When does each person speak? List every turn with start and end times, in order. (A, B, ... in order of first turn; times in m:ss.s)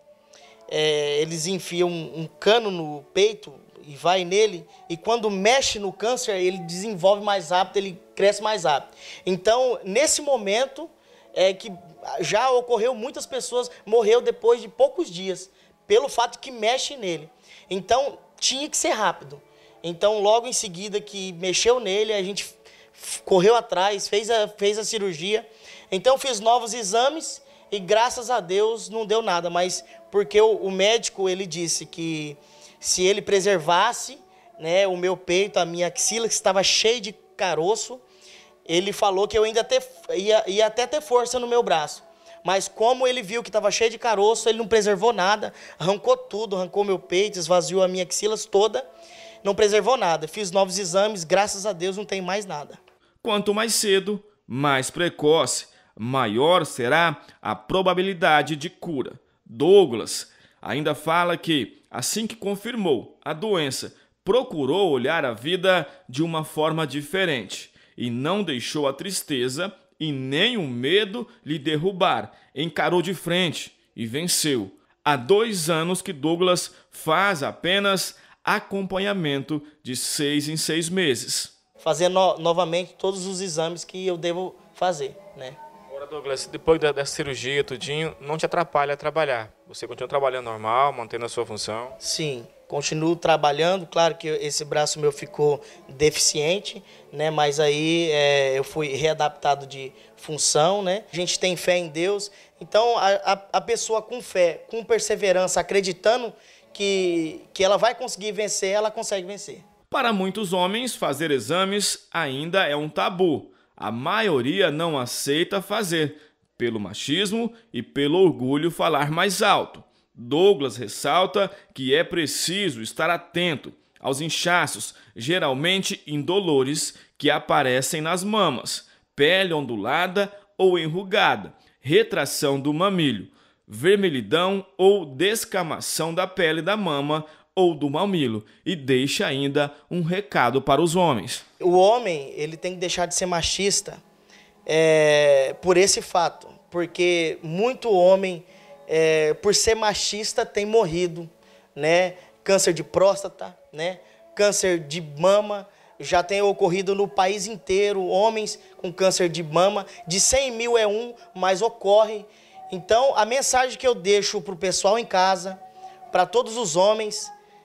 0:00.7-0:38.0 A
0:38.7-0:48.9 A
0:49.4-0:52.8 A
0:53.2-1:21.5 B
1:21.8-1:25.6 A
1:25.9-1:32.0 C
1:32.0-1:49.6 A
1:49.9-2:21.4 B
2:21.6-2:24.0 A
2:24.7-2:47.3 A